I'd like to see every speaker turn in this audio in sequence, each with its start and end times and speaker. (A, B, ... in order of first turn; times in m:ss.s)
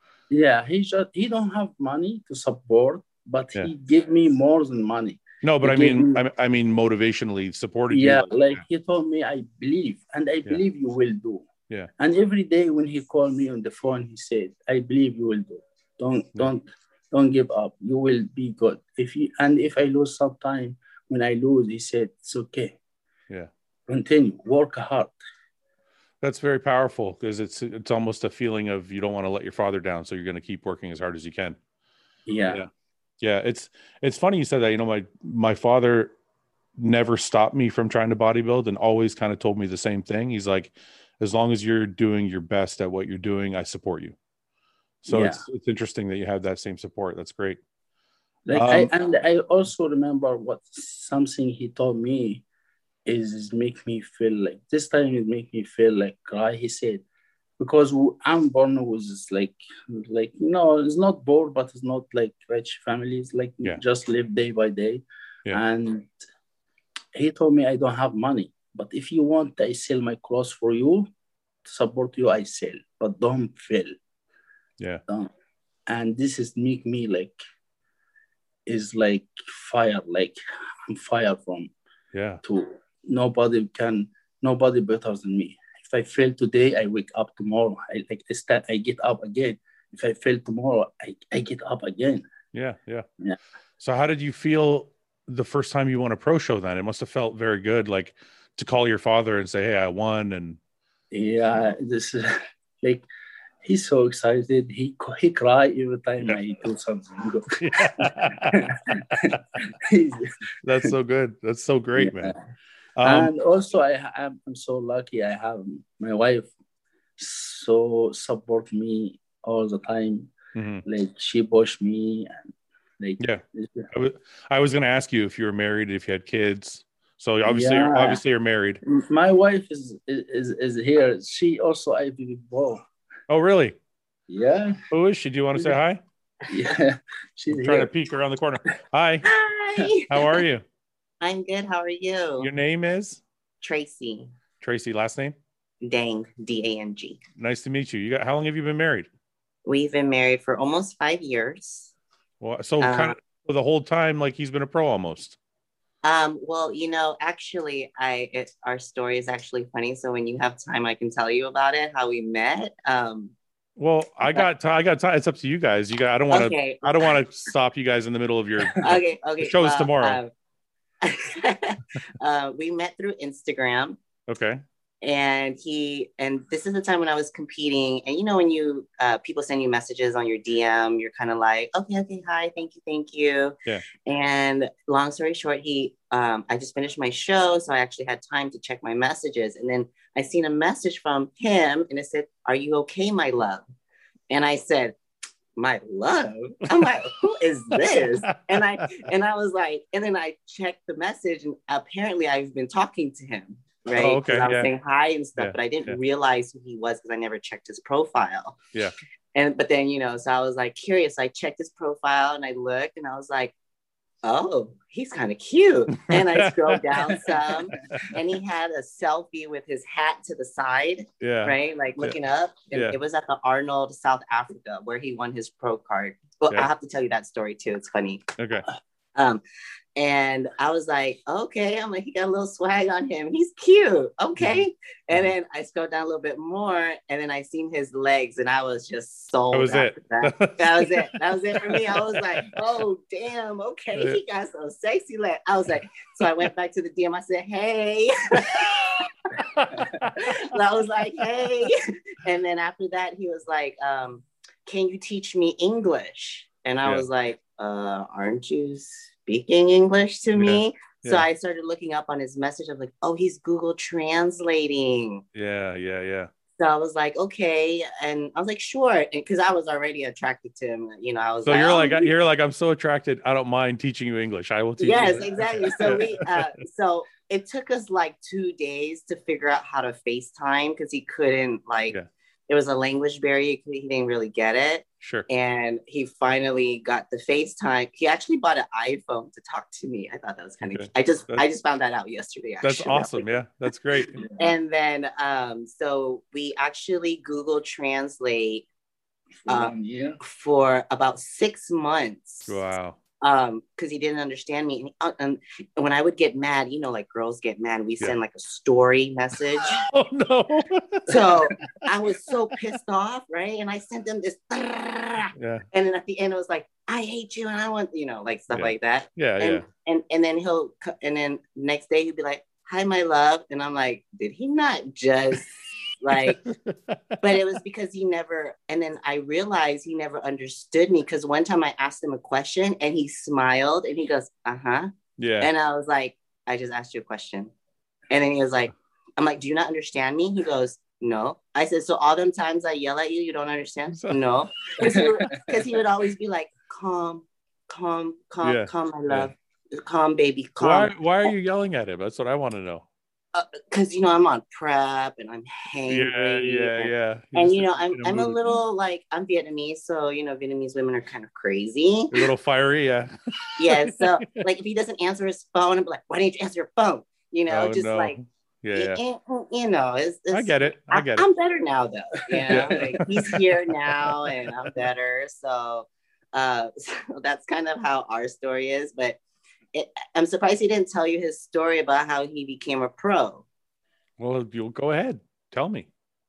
0:00.3-0:06.2 A
0:05.4-0:08.6 B
0:07.9-0:11.4 A
0:12.0-0:22.8 A
0:23.9-0:25.1 A
0:26.2-0:31.6 B
0:32.2-0:32.6 A
0:33.2-0:36.1 B
0:36.8-0:44.2 B
0:45.0-0:47.6 B
0:45.1-0:45.4 A
0:48.5-0:52.4 A
0:48.5-0:48.9 B
0:53.0-0:57.0 A
0:57.6-1:06.1 A
1:07.1-1:11.1 A
1:11.6-1:13.9 A
1:15.9-1:17.4 A
1:18.6-1:21.7 A
1:22.1-1:22.4 B
1:22.4-1:32.2 A
1:32.5-1:33.0 B
1:33.8-1:40.6 B
1:41.1-1:43.0 A
1:43.6-1:50.3 A
1:47.6-1:49.6 B
1:50.6-1:52.3 B
1:52.0-1:52.4 A
1:53.0-1:53.3 B
1:53.0-1:56.5 A
1:57.2-2:00.3 A
2:00.5-2:00.8 B
2:00.8-2:03.9 A
2:03.2-2:08.8 B
2:07.5-2:08.2 A
2:08.8-2:12.8 A
2:13.3-2:13.8 B
2:14.3-2:14.8 A
2:14.9-2:16.0 B
2:16.5-2:17.9 A
2:17.5-2:19.2 B
2:19.2-2:20.4 C
2:20.1-2:20.6 B
2:21.2-2:22.5 C
2:22.4-2:23.2 B
2:23.6-2:24.3 C
2:24.6-2:25.3 B
2:25.8-2:27.2 C
2:27.4-2:29.1 B
2:29.6-2:31.9 C
2:32.4-2:35.4 B
2:32.8-2:33.2 C
2:36.0-2:43.3 C
2:43.8-2:50.2 B
2:46.3-2:47.1 C
2:48.8-2:50.3 C
2:51.0-2:54.0 C
2:54.3-2:54.6 B
2:55.0-3:13.6 C
3:14.3-3:14.9 C
3:15.6-3:28.6 C
3:17.7-3:18.9 B
3:24.0-3:24.7 B
3:25.4-3:26.0 B
3:29.3-3:33.5 C
3:34.2-3:48.3 C
3:36.0-3:38.2 B
3:41.2-3:42.2 B
3:42.7-3:43.0 B
3:48.4-3:48.7 B
3:49.1-3:49.4 C
3:50.0-4:09.1 C
3:54.4-3:54.6 B
3:59.5-4:02.5 B
4:08.6-4:10.5 B
4:10.2-4:25.2 C
4:20.4-4:21.2 B
4:25.3-4:26.3 B
4:26.6-4:32.1 C
4:31.4-4:36.4 B
4:34.8-4:42.0 C
4:42.5-4:53.3 C
4:45.0-4:45.3 B
4:50.6-4:51.4 B
4:52.6-4:54.2 B
4:54.3-4:58.6 C
4:59.4-5:00.2 A
4:59.5-5:02.6 C
5:02.5-5:03.0 B
5:03.2-5:09.8 C
5:09.7-5:11.4 B
5:11.1-5:26.4 C
5:15.3-5:15.6 B
5:18.5-5:19.6 B
5:26.1-5:27.2 B
5:27.2-5:37.5 C
5:35.2-5:35.5 B
5:38.1-5:51.3 C
5:43.9-5:44.2 B
5:44.7-5:45.0 B
5:44.8-5:45.1 A
5:48.4-5:49.3 B
5:50.6-5:52.8 B
5:53.3-6:02.3 C
5:55.9-5:58.6 B
6:02.1-6:04.4 B
6:03.6-6:08.2 C
6:07.5-6:09.0 B
6:08.7-6:19.2 C
6:10.3-6:11.2 B
6:12.5-6:13.4 B
6:19.7-6:23.4 C
6:24.2-6:25.9 B